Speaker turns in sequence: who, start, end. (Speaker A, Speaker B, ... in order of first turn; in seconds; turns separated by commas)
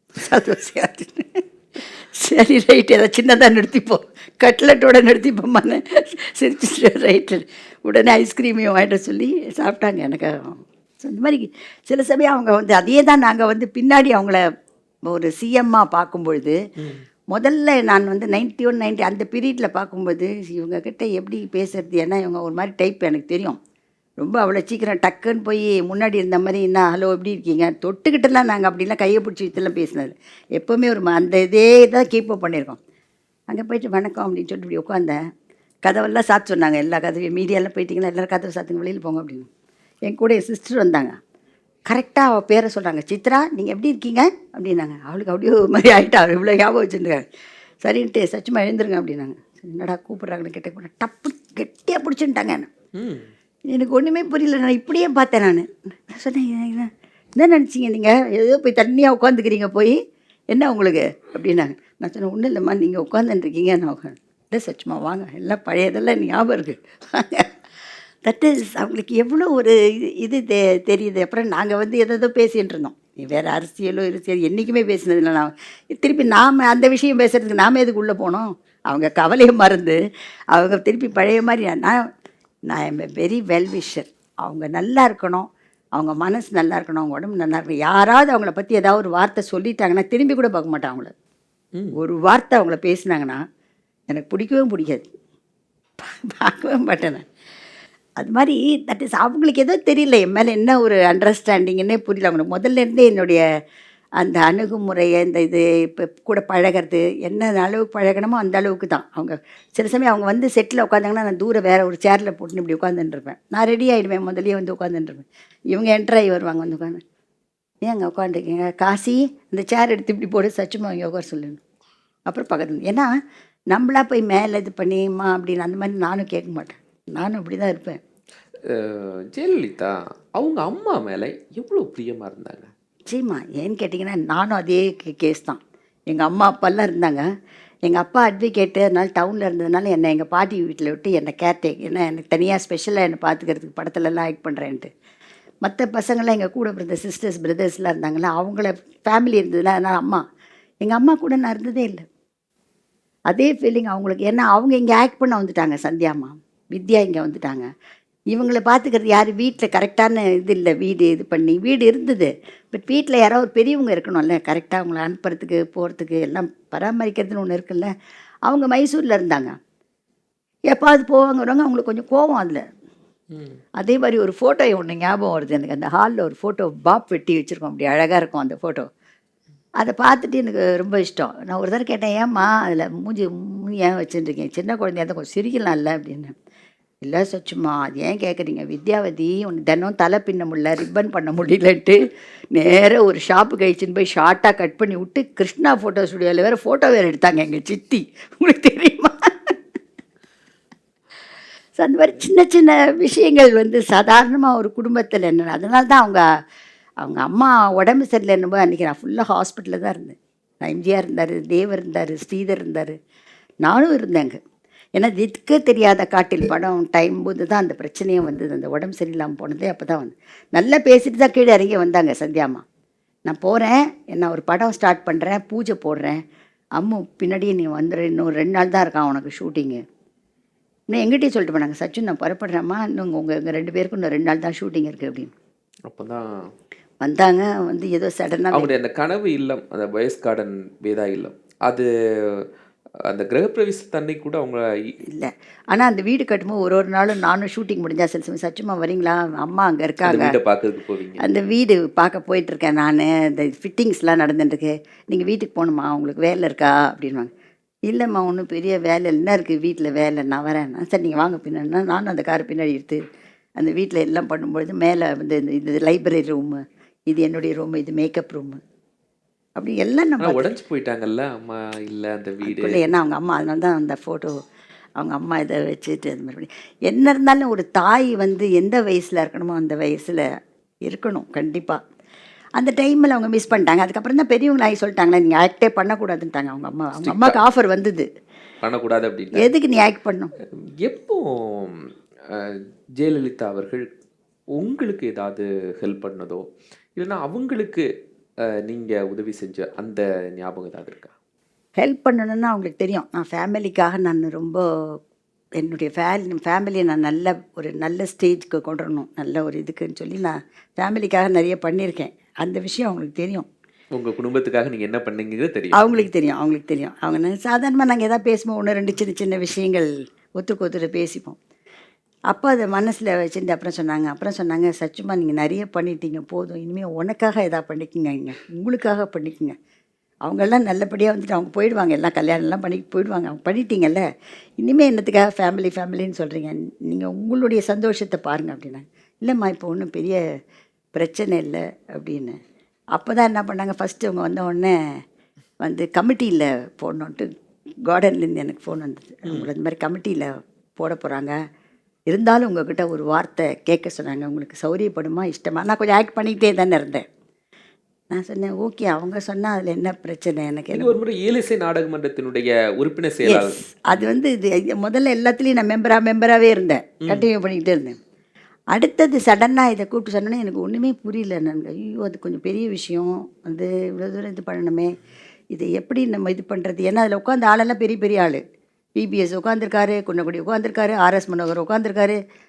Speaker A: 0.1-14.4, Speaker A: 15.1-16.6, Speaker B: 16.8-17.0, Speaker A: 17.3-23.6, Speaker A: 24.2-32.8, Speaker A: 33.5-35.2, Speaker A: 35.8-39.5, Speaker A: 40.1-41.2, Speaker A: 41.9-47.2, Speaker A: 47.8-52.7, Speaker B: 53.0-53.3, Speaker A: 53.7-60.0, Speaker A: 60.5-67.5, Speaker A: 68.2-80.0, Speaker A: 80.5-82.0, Speaker A: 82.7-91.1, Speaker A: 92.0-93.4, Speaker A: 94.1-95.1, Speaker A: 96.0-97.2, Speaker A: 98.2-103.4, Speaker A: 104.2-117.0, Speaker A: 117.8-121.6, Speaker A: 122.3-123.1, Speaker A: 123.7-128.0, Speaker B: 128.7-132.7, Speaker A: 133.1-137.2, Speaker A: 137.8-144.9, Speaker A: 145.6-150.2, Speaker A: 150.8-152.0, Speaker A: 153.3-157.7, Speaker A: 158.3-167.9, Speaker A: 168.5-169.5, Speaker A: 170.7-172.6, Speaker B: 173.3-173.6, Speaker A: 173.8-178.9, Speaker A: 179.8-186.3, Speaker A: 187.0-192.0, Speaker A: 192.5-199.5, Speaker A: 201.8-206.2, Speaker A: 207.0-212.9, Speaker A: 213.6-214.4, Speaker A: 215.0-222.6, Speaker A: 223.3-226.2, Speaker A: 226.8-229.8, Speaker A: 230.9-235.3, Speaker B: 235.8-236.5, Speaker A: 237.0-238.7, Speaker B: 238.5-242.4, Speaker B: 243.1-244.9, Speaker A: 245.1-250.3, Speaker B: 250.0-251.2, Speaker A: 251.2-257.3, Speaker A: 257.9-263.0, Speaker A: 263.6-268.6, Speaker A: 269.6-270.5, Speaker B: 270.2-272.8, Speaker A: 272.4-274.4, Speaker A: 275.0-280.2, Speaker A: 280.9-281.8, Speaker A: 282.6-288.1, Speaker B: 287.0-287.4, Speaker B: 288.6-289.5, Speaker A: 289.4-290.3, Speaker B: 290.8-293.9, Speaker B: 294.5-297.9, Speaker B: 298.4-301.1, Speaker A: 301.8-304.6, Speaker A: 305.6-313.5, Speaker B: 313.9-316.0, Speaker A: 315.7-321.4, Speaker A: 322.3-329.5, Speaker A: 330.2-334.0, Speaker A: 334.6-340.2, Speaker A: 340.9-342.4, Speaker A: 342.9-344.7, Speaker A: 345.6-347.3, Speaker A: 347.9-351.4, Speaker A: 352.1-357.0, Speaker A: 358.1-361.0, Speaker B: 360.7-364.1, Speaker A: 363.2-367.9, Speaker A: 368.7-374.9, Speaker A: 375.5-378.4, Speaker A: 379.0-382.2